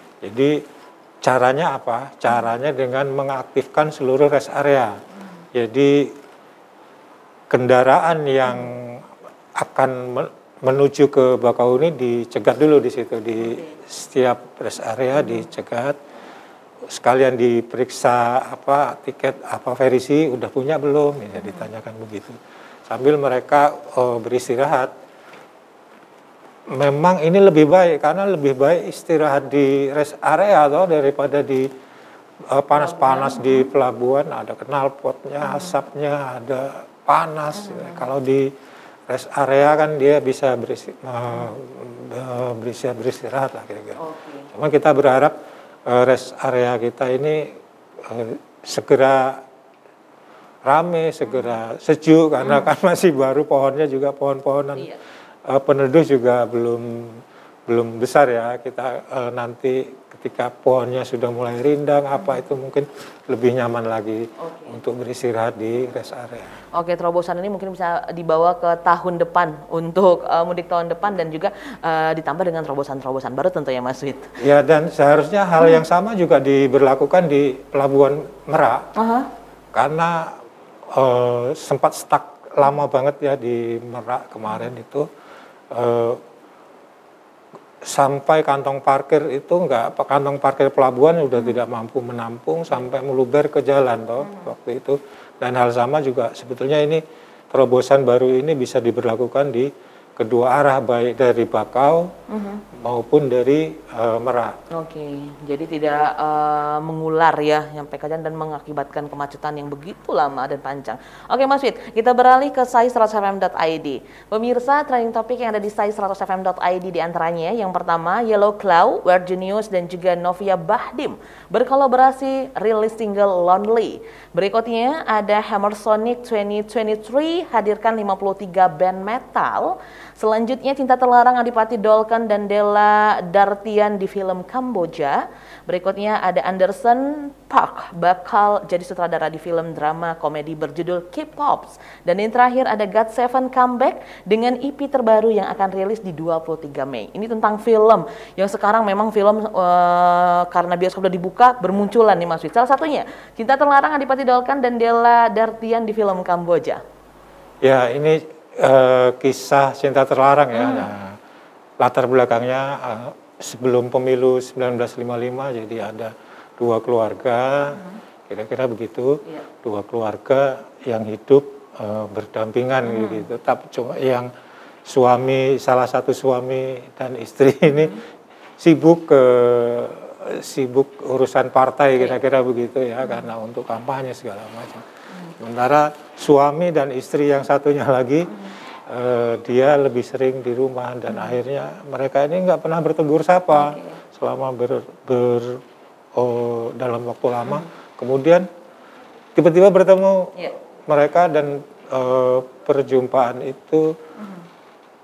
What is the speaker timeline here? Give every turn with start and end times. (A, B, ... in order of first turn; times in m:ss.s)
0:00.2-0:00.6 A
0:01.2-0:05.0 A
0:05.5-0:06.1 A
0:07.5-0:09.0 A
0:09.6-0:16.0 A
0:13.4-0:13.8 B
0:15.2-0:15.5 B
0:16.9-0:22.4 A
0:21.4-0:21.7 B
0:22.9-0:24.9 A
0:26.7-0:31.7 A
0:32.5-0:38.5 A
0:32.7-0:33.7 B
0:35.4-0:35.8 B
0:37.5-0:38.1 B
0:39.1-0:44.0 A
0:44.0-0:44.5 B
0:44.5-0:45.3 A
0:45.9-0:49.4 A
0:50.7-0:54.9 A
0:52.4-0:52.7 B
0:55.5-1:06.6 A
1:02.1-1:02.5 B
1:04.4-1:04.8 B
1:06.7-1:14.4 B
1:14.4-1:18.9 A
1:19.0-1:19.3 B
1:19.7-1:20.4 A
1:20.9-1:25.1 A
1:25.7-1:26.2 A
1:27.8-1:42.1 A
1:31.4-1:31.6 B
1:34.2-1:34.5 B
1:42.3-1:42.6 B
1:42.8-1:44.6 A
1:44.7-2:36.8 B
2:37.6-2:41.2 A
2:40.5-2:40.9 B
2:41.8-2:54.3 A
2:52.8-2:53.3 B
2:54.9-2:58.0 A
2:57.7-2:58.0 B
2:58.6-3:04.8 A
3:03.0-3:03.3 B
3:05.4-3:08.3 A
3:08.9-3:15.6 A
3:11.1-3:11.4 B
3:13.5-3:14.0 B
3:16.2-3:18.5 A
3:19.4-3:20.3 A
3:20.9-3:23.9 A